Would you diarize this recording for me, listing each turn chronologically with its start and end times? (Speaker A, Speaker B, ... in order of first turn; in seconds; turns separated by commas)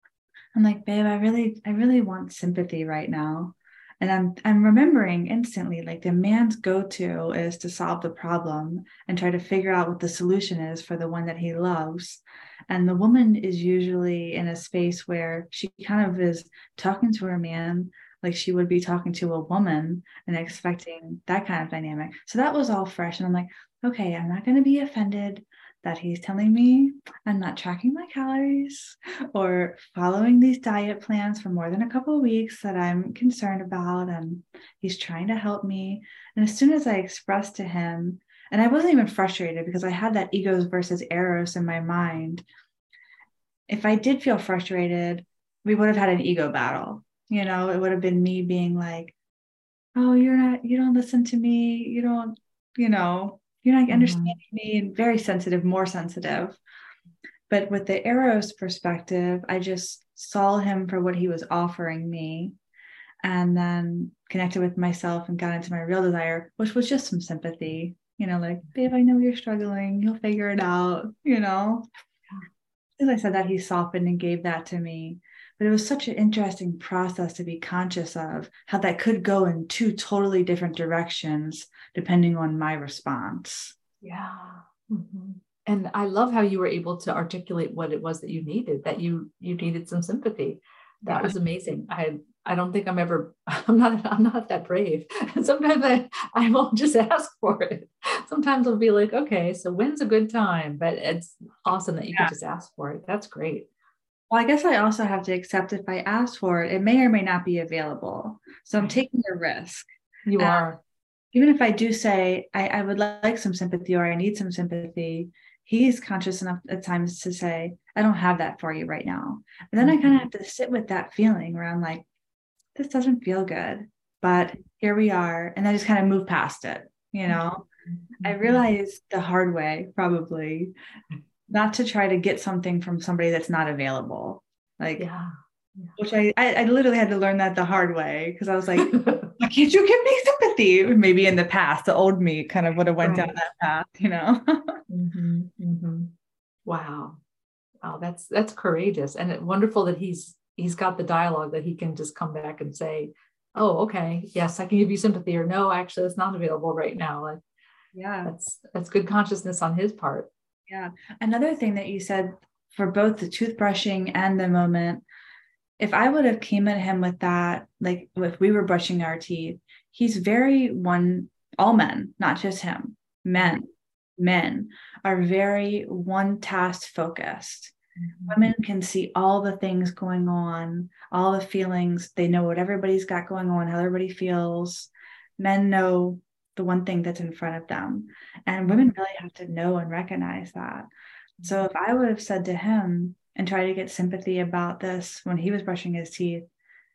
Speaker A: 0.5-42.4, Speaker A: 43.7-49.1, Speaker A: 49.9-56.6, Speaker B: 53.9-54.4, Speaker A: 57.5-62.5, Speaker A: 63.2-71.9, Speaker A: 73.0-83.7, Speaker B: 84.0-103.7, Speaker A: 91.1-91.3, Speaker A: 104.3-109.9, Speaker B: 110.2-110.8, Speaker A: 110.4-110.6, Speaker A: 111.3-122.0, Speaker B: 119.8-120.2, Speaker A: 122.8-127.7, Speaker B: 128.1-128.6, Speaker A: 128.2-130.7, Speaker A: 131.5-135.1, Speaker B: 135.0-135.9, Speaker A: 136.0-144.8, Speaker B: 138.8-139.3, Speaker B: 143.0-143.3, Speaker B: 144.9-146.1, Speaker B: 146.7-147.2, Speaker B: 147.8-157.4, Speaker A: 157.9-158.3, Speaker B: 158.2-160.3, Speaker A: 160.7-165.0, Speaker A: 165.8-177.7, Speaker B: 178.0-178.5, Speaker A: 178.3-190.9, Speaker B: 188.6-188.9, Speaker B: 191.4-191.7, Speaker A: 191.4-196.4